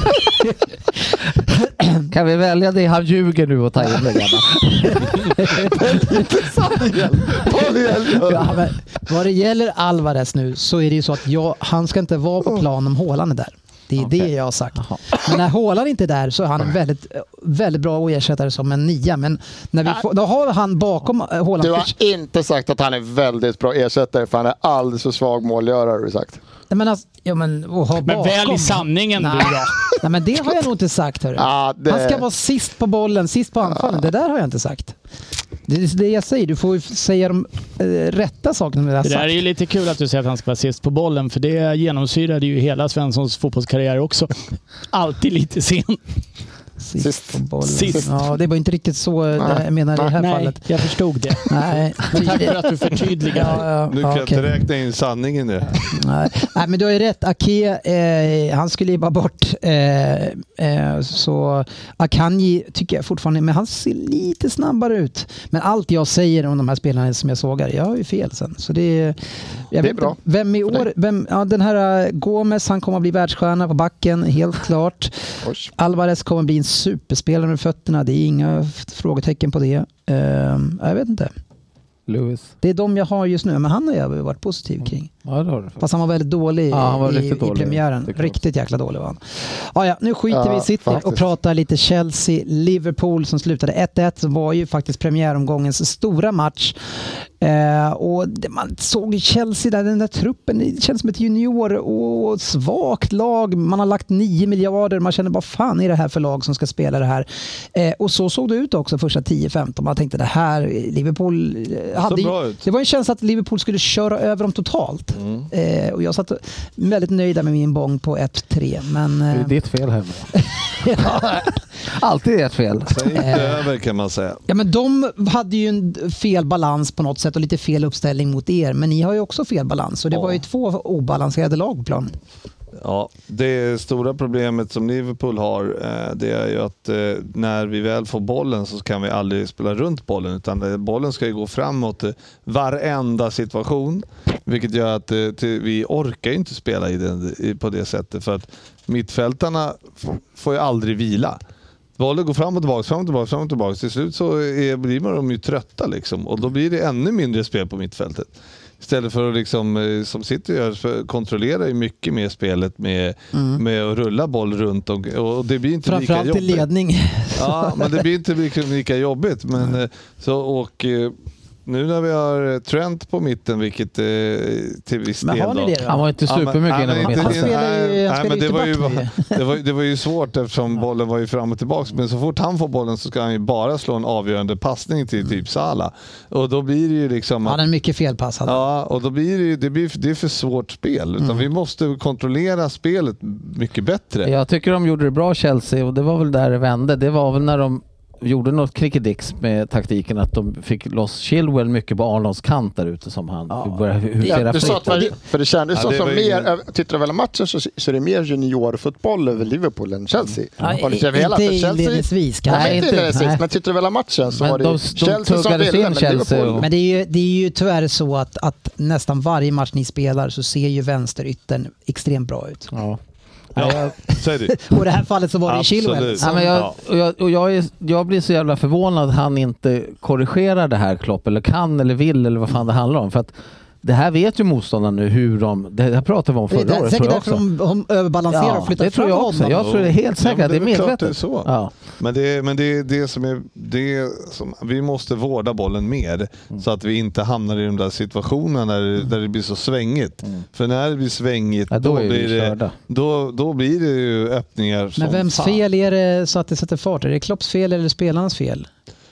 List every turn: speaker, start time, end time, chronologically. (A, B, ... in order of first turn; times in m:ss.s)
0:01.5-0:02.1 A
0:02.1-0:05.7 B
0:04.6-0:06.0 A
0:05.7-0:08.5 C
0:08.2-0:22.0 A
0:08.3-0:08.5 B
0:21.6-0:26.4 C
0:26.7-0:35.0 A
0:28.0-0:29.8 D
0:31.4-0:32.2 C
0:35.7-0:39.4 A
0:39.0-0:44.3 D
0:44.9-0:46.0 D
0:46.8-0:50.7 A
0:47.0-0:48.1 C
0:47.6-0:48.1 D
0:49.4-0:50.1 C
0:50.2-0:53.6 D
0:51.5-0:52.6 A
0:53.3-0:54.5 A
0:53.9-0:56.0 E
0:55.9-1:15.2 A
1:09.8-1:10.2 C
1:15.4-1:15.7 C
1:15.8-1:21.3 A
1:22.1-1:22.5 B
1:22.6-1:25.1 A
1:25.2-1:25.8 B
1:25.8-1:59.5 A
1:26.7-1:28.3 B
1:30.3-1:31.2 C
1:52.0-1:52.7 E
1:55.2-1:55.5 E
1:59.3-2:00.3 B
2:00.3-2:01.6 A
2:01.0-2:01.2 B
2:01.9-2:03.2 B
2:02.9-2:04.4 E
2:03.1-2:03.6 A
2:04.5-2:12.1 A
2:10.1-2:10.4 E
2:12.8-2:31.4 E
2:32.0-2:46.6 E
2:43.3-2:43.6 A
2:45.8-2:48.0 A
2:47.4-3:07.6 E
2:55.2-2:56.1 A
2:55.9-2:57.6 B
2:57.0-2:59.4 A
3:07.4-3:08.6 A
3:08.5-3:14.3 E
3:11.2-3:11.4 A
3:14.2-3:25.1 B
3:23.5-3:24.8 A
3:24.2-3:36.7 C
3:25.7-3:26.5 E
3:30.6-3:32.8 A
3:32.5-3:33.4 B
3:34.3-3:36.7 B
3:36.6-3:42.7 A
3:42.7-3:43.0 B
3:43.6-3:44.6 E
3:43.6-3:46.6 A
3:45.5-3:46.7 E
3:46.2-3:57.4 B
3:56.5-3:59.7 A
3:58.3-4:01.7 B
3:59.6-4:15.6 E
4:11.7-4:12.7 B
4:15.0-4:18.7 A